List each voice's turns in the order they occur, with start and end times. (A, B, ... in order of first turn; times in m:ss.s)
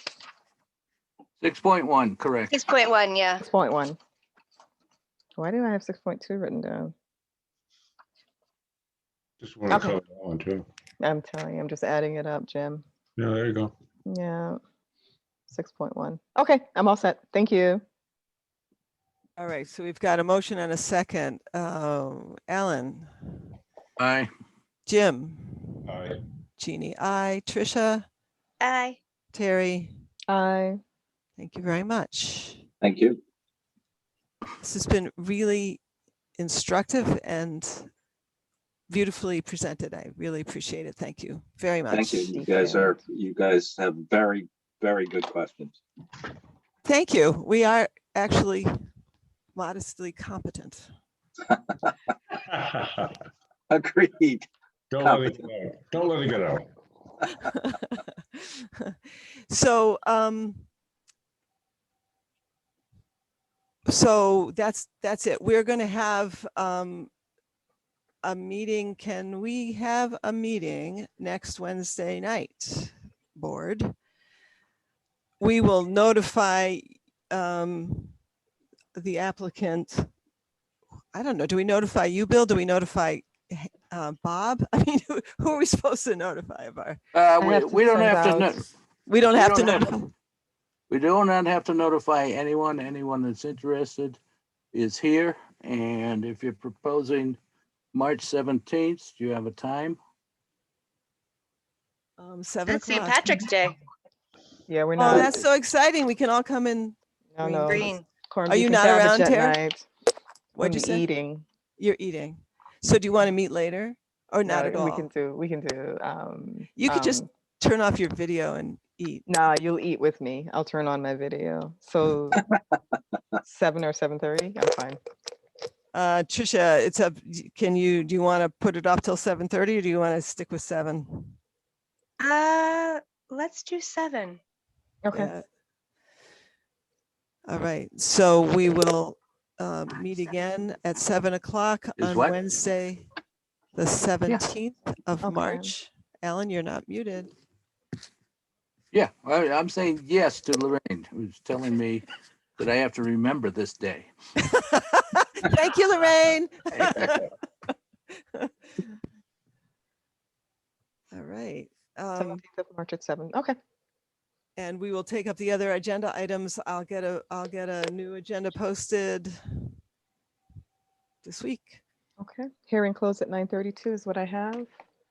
0:01.4-0:02.5 A
0:02.5-0:03.4 B
0:03.4-0:04.0 C
0:05.4-0:06.9 C
0:09.4-0:10.7 D
0:09.7-0:10.0 C
0:11.0-0:12.8 C
0:13.2-0:13.7 D
0:14.1-0:14.6 C
0:15.5-0:17.8 C
0:19.4-0:23.5 E
0:24.0-0:24.3 A
0:24.9-0:25.9 E
0:25.9-0:26.2 D
0:26.6-0:28.0 E
0:28.6-0:29.0 B
0:29.3-0:30.0 E
0:30.3-0:30.8 C
0:31.4-0:32.7 E
0:32.8-0:33.2 F
0:34.6-0:35.8 E
0:36.4-0:37.9 E
0:38.9-0:42.8 E
0:41.9-0:45.8 F
0:42.3-0:43.0 C
0:46.8-0:48.7 E
0:49.6-0:50.9 E
0:52.5-0:53.1 D
0:53.7-0:54.5 F
0:54.9-0:56.7 D
0:55.0-0:55.4 F
0:57.5-0:59.0 E
0:59.5-1:00.7 E
1:03.9-1:07.1 E
1:08.2-1:13.9 E
1:15.4-1:18.2 E
1:19.0-1:20.1 E
1:21.1-1:27.0 E
1:27.1-1:28.6 A
1:27.4-1:28.6 C
1:29.1-1:30.1 E
1:29.3-1:30.0 A
1:30.9-1:34.2 A
1:34.7-1:37.4 A
1:37.9-1:40.0 A
1:42.2-1:43.4 E
1:42.7-1:43.8 B
1:44.7-1:45.4 C
1:45.0-1:47.0 E
1:47.3-1:49.9 C
1:47.4-1:48.0 B
1:48.5-1:49.6 E
1:50.6-1:51.1 E
1:50.6-1:51.4 C
1:51.8-1:55.1 E
1:54.4-1:57.3 C
1:56.8-1:59.3 E
1:59.3-2:02.4 C
2:03.4-2:05.0 C
2:05.9-2:11.4 E
2:12.2-2:14.4 B
2:15.0-2:15.3 C
2:15.2-2:15.4 E
2:17.5-2:23.0 E
2:22.0-2:22.4 A
2:23.8-2:27.3 E
2:25.2-2:25.8 C
2:28.9-2:32.0 A
2:32.6-2:34.1 A
2:34.4-2:38.9 E
2:41.1-2:42.4 E
2:42.2-2:43.6 C
2:44.6-2:49.7 E
2:51.2-2:51.8 E
2:52.2-2:54.7 C